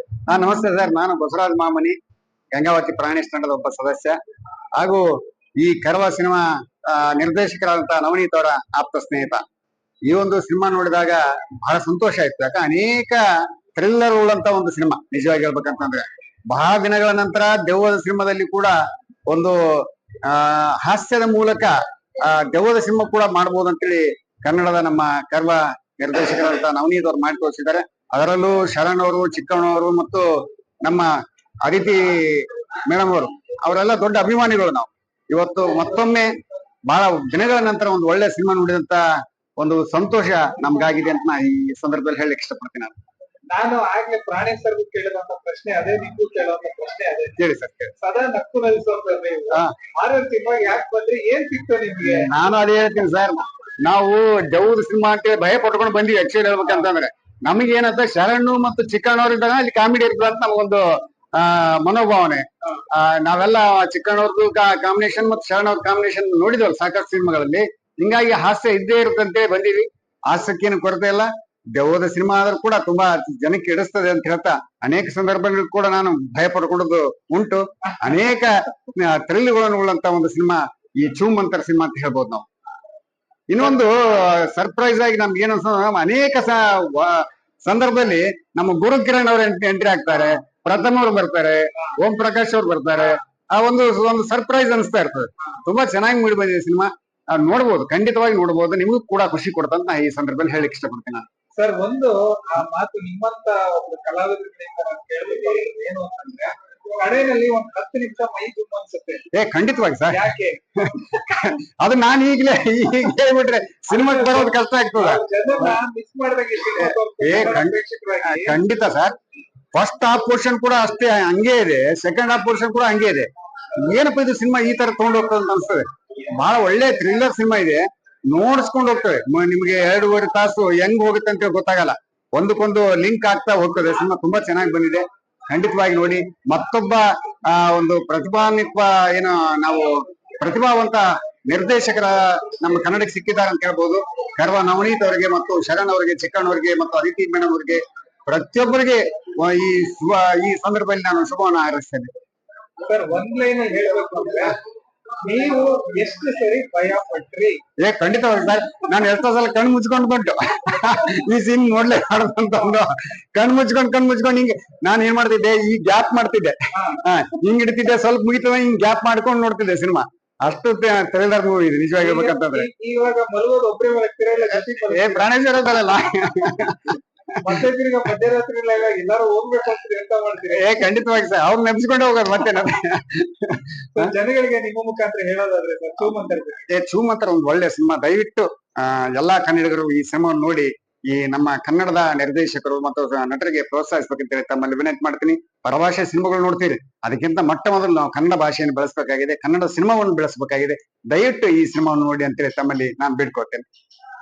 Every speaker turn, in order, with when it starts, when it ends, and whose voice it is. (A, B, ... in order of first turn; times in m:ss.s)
0:00.3-0:02.0 A
0:02.5-0:04.2 A
0:04.8-0:05.1 A
0:05.6-0:09.4 A
0:10.1-0:13.2 A
0:13.7-0:18.7 A
0:19.3-0:30.3 A
0:30.8-0:31.1 A
0:31.6-0:36.3 A
0:36.9-0:39.0 A
0:39.6-0:42.9 A
0:43.5-0:47.4 B
0:47.4-0:47.9 A
0:48.0-0:52.3 B
0:52.0-1:22.4 A
1:23.5-1:41.2 A
1:41.6-1:49.2 B
1:49.3-1:50.2 A
1:50.1-1:50.6 B
1:50.8-1:55.8 A
1:53.9-1:58.6 B
1:56.8-1:59.1 A
1:59.7-2:32.1 A
2:32.8-2:34.6 B
2:35.2-2:37.6 B
2:37.8-2:52.7 A
2:46.7-2:47.0 B
2:52.0-2:55.3 B
2:54.9-2:57.0 A
2:57.4-3:00.8 B
3:00.5-3:04.1 A
3:03.9-3:06.6 B
3:06.7-3:23.6 A